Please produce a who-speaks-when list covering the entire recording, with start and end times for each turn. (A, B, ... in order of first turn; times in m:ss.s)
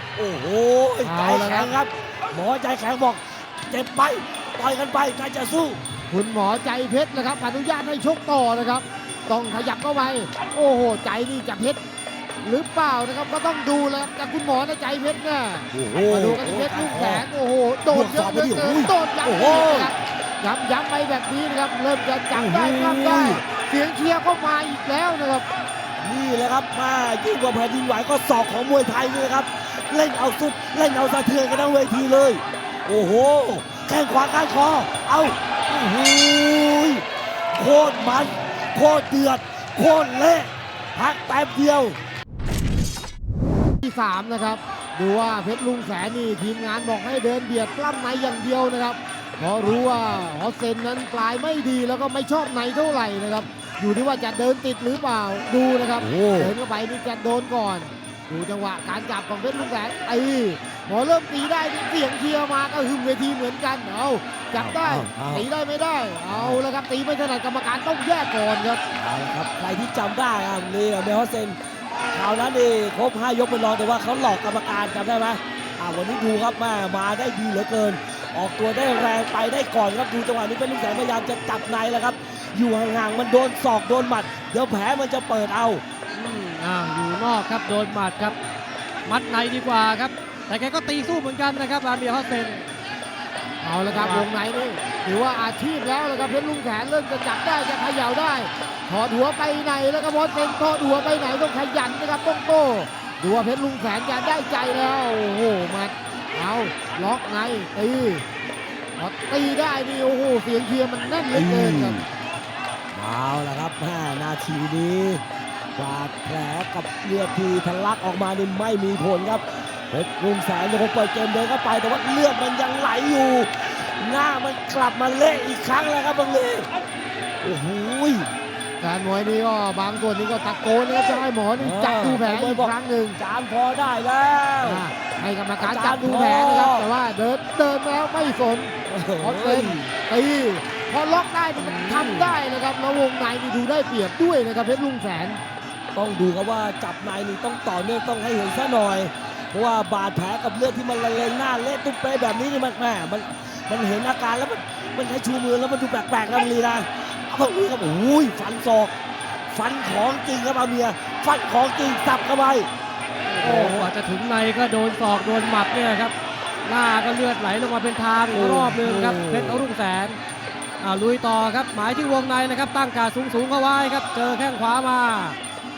0:00.2-0:05.8 A
0:01.0-0:01.8 B
0:06.1-0:11.8 B
0:12.4-0:25.5 B
0:15.7-0:17.3 A
0:17.9-0:19.9 A
0:22.3-0:23.4 A
0:26.0-0:42.0 A
0:43.8-1:08.8 B
0:56.0-0:56.5 A
1:04.6-1:05.5 A
1:06.3-1:06.6 A
1:09.0-1:11.6 A
1:12.1-1:25.8 A
1:26.1-1:28.4 C
1:29.1-1:32.7 C
1:33.6-1:48.2 B
1:33.9-1:34.3 C
1:49.0-1:52.0 B
1:51.3-1:52.1 A
1:52.9-1:55.2 A
1:55.8-2:06.7 A
2:07.4-2:08.3 A
2:08.8-2:13.2 B
2:11.6-2:14.9 A
2:14.6-2:25.4 B
2:15.6-2:16.9 A
2:18.9-2:19.9 A
2:21.6-2:22.4 A
2:26.0-2:39.0 A
2:39.5-2:42.7 A
2:43.3-2:46.1 C
2:43.4-2:43.9 B
2:46.6-2:50.2 C
2:48.3-2:49.7 A
2:50.8-2:55.4 C